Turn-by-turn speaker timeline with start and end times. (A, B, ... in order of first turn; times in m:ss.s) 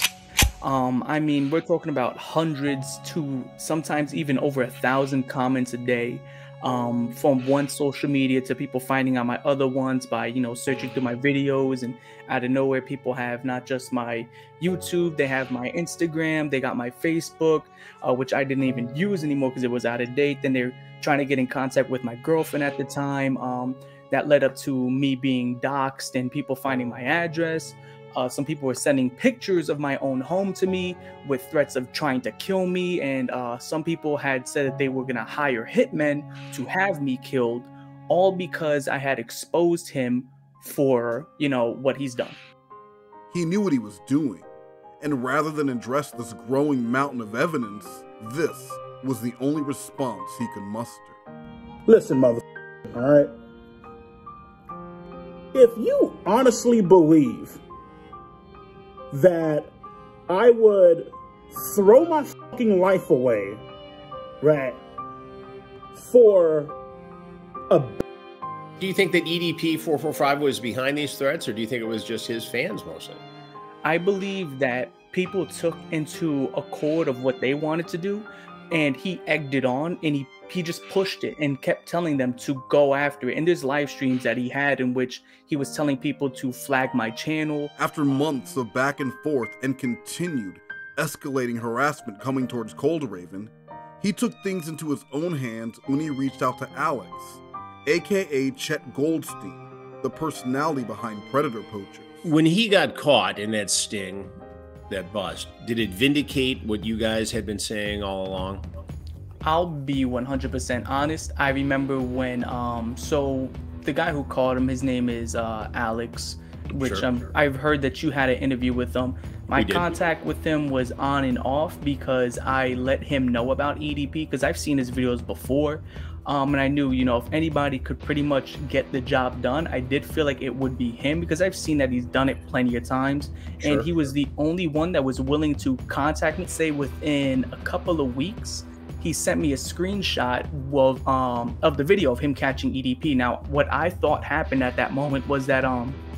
0:00.6-0:42.4 A
0:43.3-0:44.5 B
0:45.0-0:51.2 B
0:51.8-0:53.3 C
0:55.5-0:57.6 C
0:59.1-0:59.7 C
1:00.3-1:03.6 C
1:04.4-1:04.8 C
1:05.9-1:06.8 C
1:07.7-1:08.0 C
1:08.8-1:13.2 D
1:13.8-1:27.7 A
1:27.8-1:42.2 B
1:42.2-1:44.4 D
1:44.9-1:48.6 D
1:49.4-2:26.0 A
1:56.7-1:57.3 D
1:59.5-1:59.9 D